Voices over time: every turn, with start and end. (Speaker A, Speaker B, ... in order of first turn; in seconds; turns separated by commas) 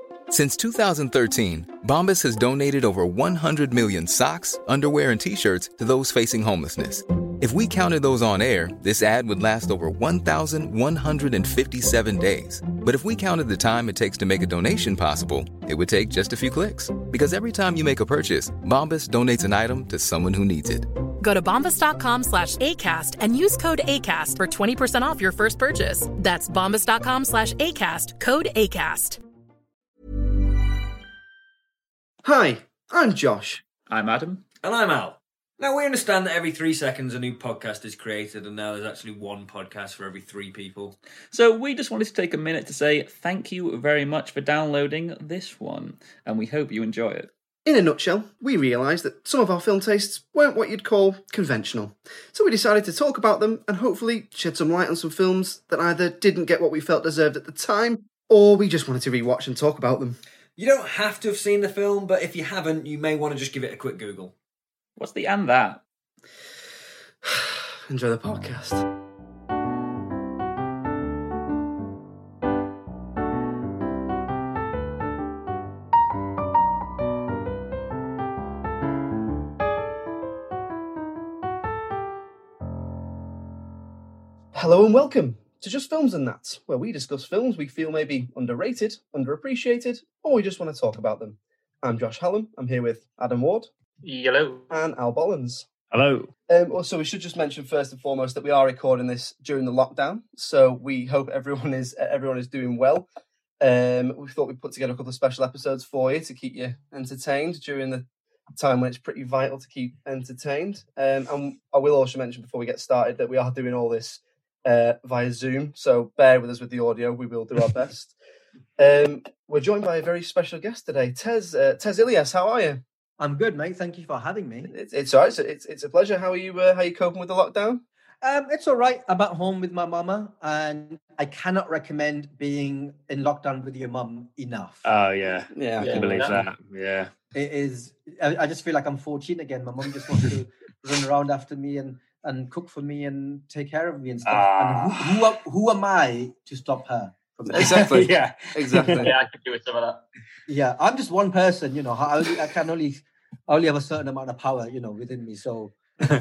Speaker A: 0.3-20.9, Speaker B: 21.2-29.2, Speaker C: 32.2-33.6, Speaker D: 33.9-34.4, Speaker E: 34.6-41.0, Speaker D: 41.3-47.3, Speaker C: 47.6-60.2, Speaker E: 60.6-64.3, Speaker D: 65.0-65.8, Speaker C: 67.2-68.8, Speaker C: 84.5-93.7, Speaker D: 94.0-94.7, Speaker C: 94.7-95.7, Speaker E: 95.9-96.3, Speaker C: 96.5-103.1, Speaker C: 103.6-118.1, Speaker C: 118.8-122.8, Speaker F: 123.2-124.7, Speaker C: 124.7-127.8, Speaker F: 128.2-134.8, Speaker E: 134.8-137.1, Speaker C: 135.5-136.5, Speaker D: 135.8-136.4, Speaker F: 137.3-148.0, Speaker E: 144.2-145.4, Speaker C: 147.5-149.1, Speaker E: 147.6-149.1, Speaker D: 149.0-150.0, Speaker F: 150.5-155.8